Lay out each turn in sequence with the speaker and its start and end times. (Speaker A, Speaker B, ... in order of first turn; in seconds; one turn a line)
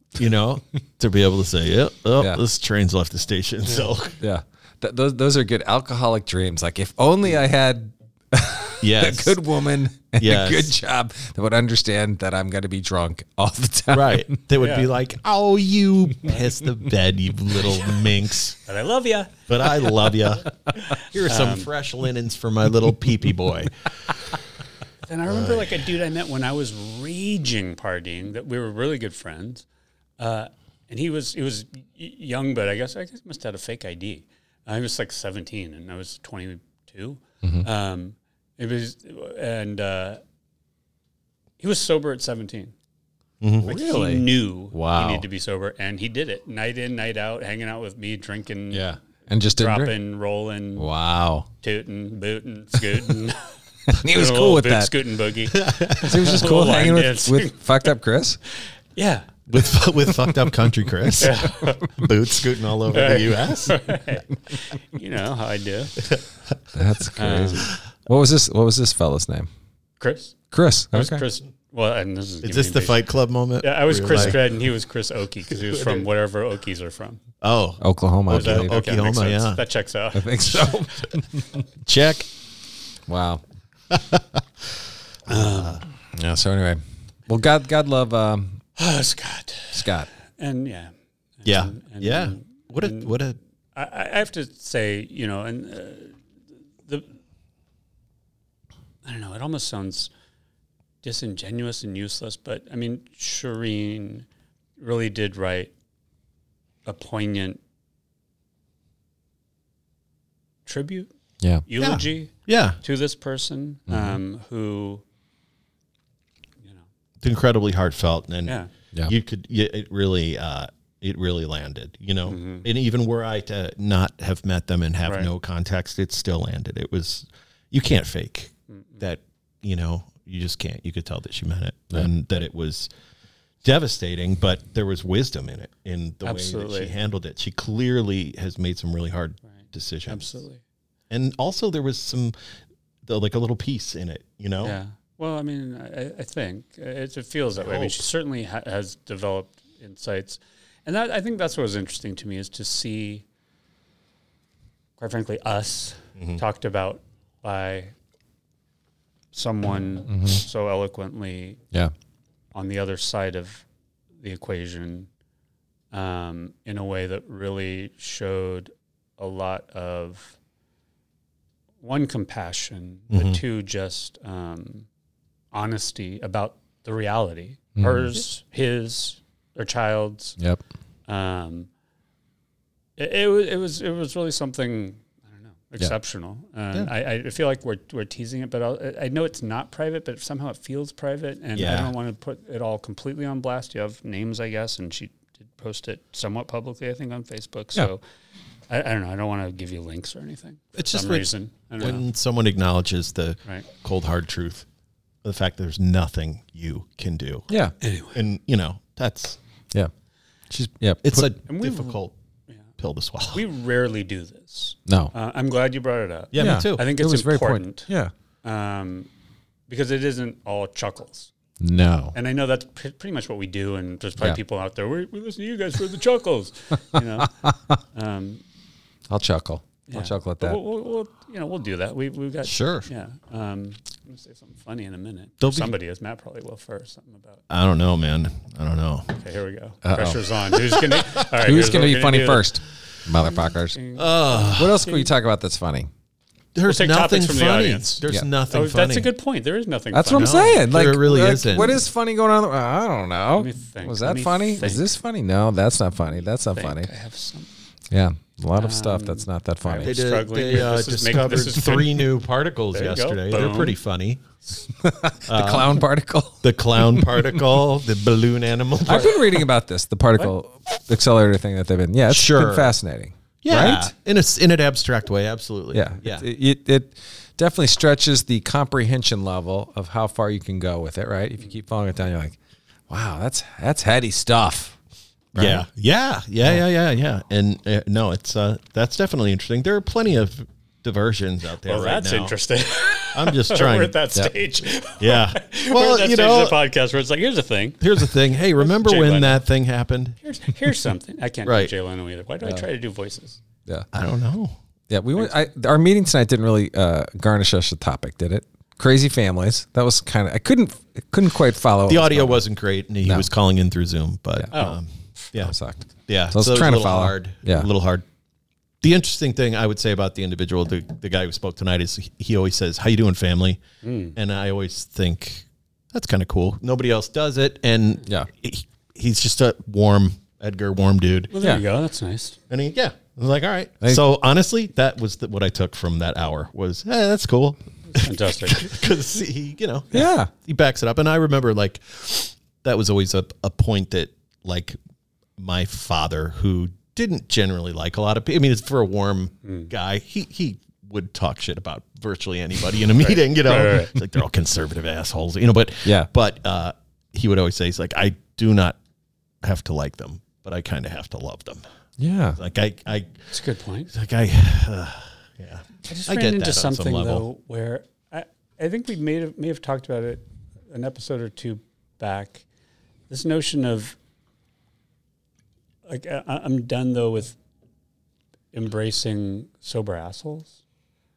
Speaker A: 0.2-4.2
Speaker B: 3.7-3.9
Speaker C: 4.2-14.3
Speaker A: 8.8-9.4
Speaker A: 10.2-10.7
Speaker A: 13.9-18.6
Speaker B: 14.6-14.9
Speaker B: 18.7-20.1
Speaker A: 19.5-23.9
Speaker B: 20.8-21.7
Speaker B: 25.1-29.6
Speaker A: 25.3-25.8
Speaker B: 30.2-40.2
Speaker C: 37.4-37.7
Speaker B: 41.6-42.7
Speaker A: 43.4-44.3
Speaker B: 43.6-48.9
Speaker C: 44.7-45.3
Speaker C: 48.7-50.0
Speaker B: 49.5-50.9
Speaker C: 50.8-51.5
Speaker B: 51.6-57.9
Speaker C: 53.9-55.0
Speaker A: 55.5-56.2
Speaker C: 56.0-58.4
Speaker B: 59.0-59.3
Speaker A: 59.5-63.9
Speaker C: 61.0-61.4
Speaker B: 61.2-61.9
Speaker B: 62.9-66.0
Speaker C: 66.7-69.5
Speaker B: 67.2-67.7
Speaker B: 70.0-70.4
Speaker C: 70.5-71.2
Speaker B: 70.9-73.0
Speaker A: 72.4-74.4
Speaker B: 73.6-77.2
Speaker C: 74.1-74.4
Speaker A: 75.8-76.0
Speaker A: 77.4-79.6
Speaker C: 77.8-78.8
Speaker B: 78.3-80.8
Speaker C: 80.1-81.6
Speaker A: 81.9-82.3
Speaker C: 83.1-83.4
Speaker A: 83.9-84.2
Speaker B: 85.3-85.8
Speaker A: 85.3-85.8
Speaker C: 86.1-88.6
Speaker B: 88.8-89.9
Speaker C: 89.7-90.1
Speaker B: 90.4-93.2
Speaker A: 91.5-93.4
Speaker B: 93.8-96.2
Speaker B: 96.8-97.1
Speaker B: 99.0-100.1
Speaker B: 101.0-104.3
Speaker B: 104.8-105.7
Speaker B: 106.9-107.6
Speaker B: 110.7-111.1
Speaker B: 111.7-115.0
Speaker A: 111.8-112.8
Speaker C: 113.9-114.2
Speaker A: 117.2-132.9
Speaker B: 122.3-122.7
Speaker B: 125.0-125.3
Speaker B: 128.7-129.0
Speaker A: 133.6-140.3
Speaker B: 136.2-136.9
Speaker B: 139.5-140.6
Speaker A: 141.1-142.3
Speaker A: 143.1-144.8
Speaker B: 144.6-153.2
Speaker A: 147.6-148.1
Speaker B: 155.0-157.9
Speaker B: 159.3-161.6
Speaker C: 160.1-160.4
Speaker B: 162.5-163.6
Speaker B: 164.2-165.1
Speaker B: 165.9-170.3
Speaker B: 171.8-174.9
Speaker A: 173.1-173.4
Speaker B: 175.5-180.4
Speaker C: 177.8-178.1
Speaker B: 181.1-181.7
Speaker B: 183.0-198.0
Speaker A: 191.6-191.9
Speaker B: 198.7-202.1
Speaker A: 200.8-204.7
Speaker A: 205.2-207.5
Speaker C: 207.5-207.8
Speaker B: 207.8-208.2
Speaker A: 208.1-209.4
Speaker C: 210.5-211.3
Speaker A: 211.0-212.1
Speaker B: 211.5-212.6
Speaker A: 212.8-213.4
Speaker B: 213.3-217.9
Speaker C: 214.9-215.1
Speaker A: 216.3-216.8
Speaker C: 216.3-218.1
Speaker B: 218.4-219.1
Speaker B: 219.7-221.3
Speaker C: 221.6-222.2
Speaker B: 222.1-227.3
Speaker C: 227.2-227.8
Speaker B: 227.9-228.4
Speaker C: 229.1-230.6
Speaker B: 229.9-237.4
Speaker A: 232.4-232.9
Speaker A: 235.4-235.7
Speaker A: 237.5-239.1
Speaker B: 239.1-242.5
Speaker C: 239.8-240.2
Speaker A: 240.7-241.1
Speaker C: 241.3-243.8
Speaker B: 243.3-245.1
Speaker A: 243.9-244.9
Speaker C: 244.5-245.9
Speaker A: 246.6-249.1
Speaker B: 246.7-250.6
Speaker C: 249.9-256.9
Speaker A: 250.1-251.8
Speaker B: 251.5-251.8
Speaker B: 253.4-254.9
Speaker B: 256.5-257.5
Speaker C: 257.9-260.0
Speaker B: 258.6-262.1
Speaker A: 259.8-264.2
Speaker B: 262.7-263.8
Speaker C: 264.8-267.5
Speaker A: 265.3-265.8
Speaker A: 266.4-269.4
Speaker C: 268.9-273.9
Speaker A: 272.1-272.7
Speaker A: 273.4-276.3
Speaker C: 275.7-282.4
Speaker C: 282.9-284.8
Speaker C: 285.4-285.6
Speaker A: 285.4-292.4
Speaker B: 291.6-299.4
Speaker A: 293.1-294.0
Speaker A: 295.0-296.6
Speaker A: 297.8-300.2
Speaker B: 300.2-303.4
Speaker A: 301.4-301.7
Speaker A: 303.9-304.6
Speaker C: 304.9-312.4
Speaker A: 311.9-315.6
Speaker C: 313.0-313.3
Speaker B: 314.5-315.2
Speaker C: 315.4-317.7
Speaker A: 316.1-318.1
Speaker A: 318.8-323.6
Speaker B: 323.8-324.2
Speaker A: 324.1-331.3
Speaker B: 331.3-332.4
Speaker A: 332.5-344.8
Speaker B: 337.9-338.7
Speaker C: 339.9-340.3
Speaker A: 345.4-358.8
Speaker B: 349.4-349.7
Speaker B: 353.0-353.9
Speaker A: 359.4-361.6
Speaker C: 362.0-362.4
Speaker A: 362.4-363.3
Speaker B: 363.3-363.9
Speaker A: 363.9-367.2
Speaker B: 365.9-372.4
Speaker B: 373.1-374.0
Speaker B: 375.9-377.4
Speaker B: 378.5-380.6